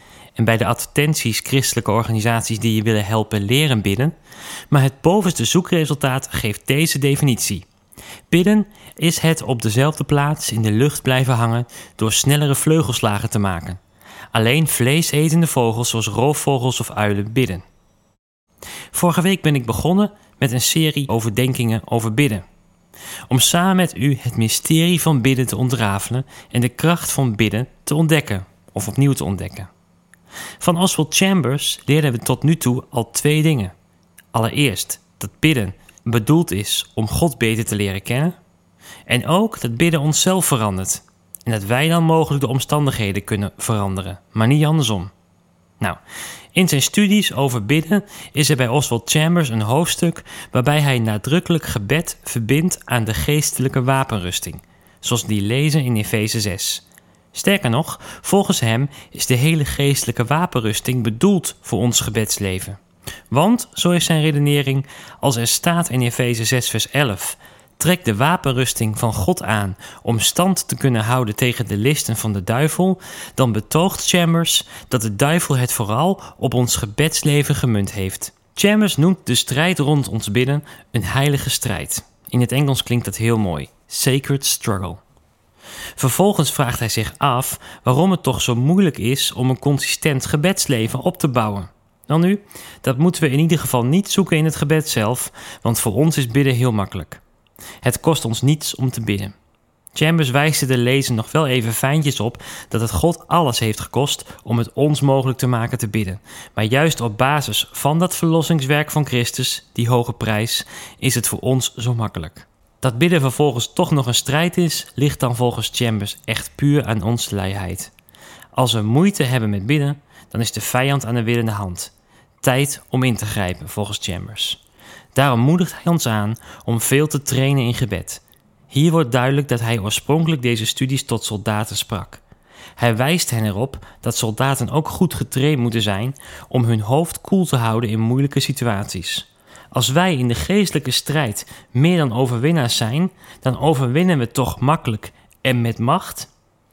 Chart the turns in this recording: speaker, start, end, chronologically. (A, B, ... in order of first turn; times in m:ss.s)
0:00.4-0:04.1 A
0:04.7-0:07.6 A
0:08.3-0:13.8 A
0:14.3-0:17.6 A
0:18.9-0:22.4 A
0:23.3-0:29.7 A
0:30.6-0:33.7 A
0:34.3-0:38.4 A
0:39.1-0:45.1 A
0:46.5-1:02.8 A
1:03.3-1:25.0 A
1:26.0-1:37.2 A
1:37.8-1:39.3 A
1:39.9-1:57.9 A
1:58.5-2:04.6 A
2:05.1-2:12.2 A
2:12.8-2:26.3 A